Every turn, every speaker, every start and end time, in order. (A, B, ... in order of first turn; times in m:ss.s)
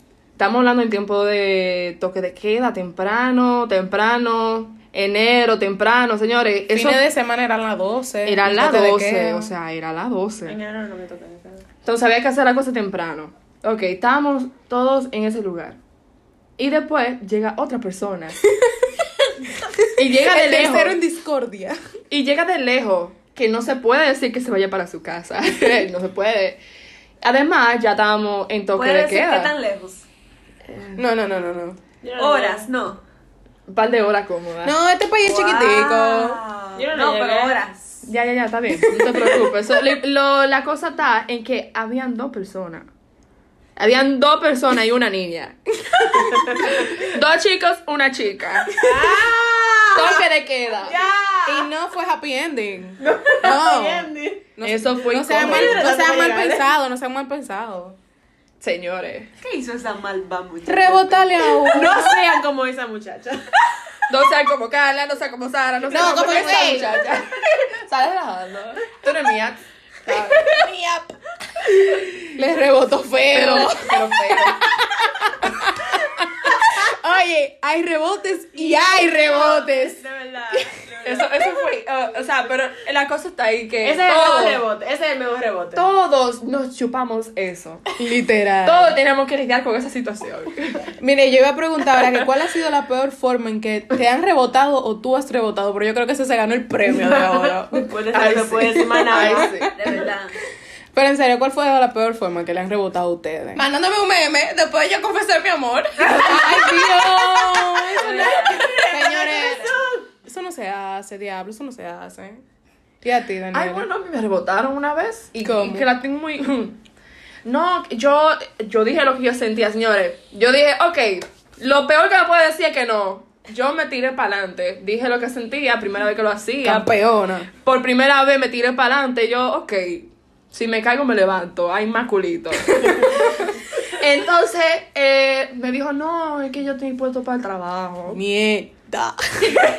0:00.4-0:07.0 A
0:06.7-0:09.5 B
0:08.2-0:10.6 A
0:10.5-0:11.6 C
0:11.8-0:15.8 A
0:16.6-0:18.4 A
0:20.0-0:21.0 A
0:20.0-0:21.8 B
0:22.1-0:26.6 A
0:27.2-0:29.5 A
0:28.7-0:30.0 D
0:30.7-0:31.0 A
0:31.0-0:31.8 B
0:32.0-0:32.7 C
0:32.2-0:33.0 D
0:33.7-0:34.7 A
0:34.6-0:36.4 B
0:35.2-0:38.0 D
0:36.7-0:37.6 C
0:38.0-0:42.9 A
0:43.8-0:48.9 A
0:48.7-0:50.2 C
0:49.9-0:51.0 A
0:50.8-0:51.7 C
0:51.4-0:58.0 B
0:53.0-0:54.4 C
0:54.6-0:55.9 A
0:55.3-0:56.6 C
0:58.6-0:59.3 A
0:59.4-1:01.2 D
0:59.5-1:03.4 C
1:00.6-1:02.2 B
1:04.1-1:10.5 A
1:05.9-1:07.0 E
1:05.9-1:06.8 B
1:06.0-1:07.0 C
1:10.4-1:11.1 E
1:12.4-1:14.5 B
1:13.3-1:14.6 A
1:15.2-1:15.9 B
1:16.7-1:20.0 B
1:18.5-1:21.4 C
1:21.0-1:24.6 A
1:23.8-1:25.8 C
1:25.7-1:27.8 A
1:28.0-1:28.9 B
1:28.6-1:30.9 A
1:31.0-1:37.8 B
1:36.9-1:39.5 C
1:38.1-1:40.0 A
1:39.1-1:39.7 B
1:39.7-1:40.3 D
1:40.9-1:43.6 B
1:43.6-1:46.6 E
1:46.2-1:49.7 B
1:46.2-1:46.5 C
1:47.9-1:49.8 D
1:48.0-1:50.0 C
1:50.2-1:52.4 B
1:53.0-1:53.9 B
1:53.5-1:56.8 A
1:55.4-1:55.9 B
1:57.4-2:06.9 A
2:06.6-2:07.5 B
2:07.5-2:18.2 A
2:18.1-2:19.6 B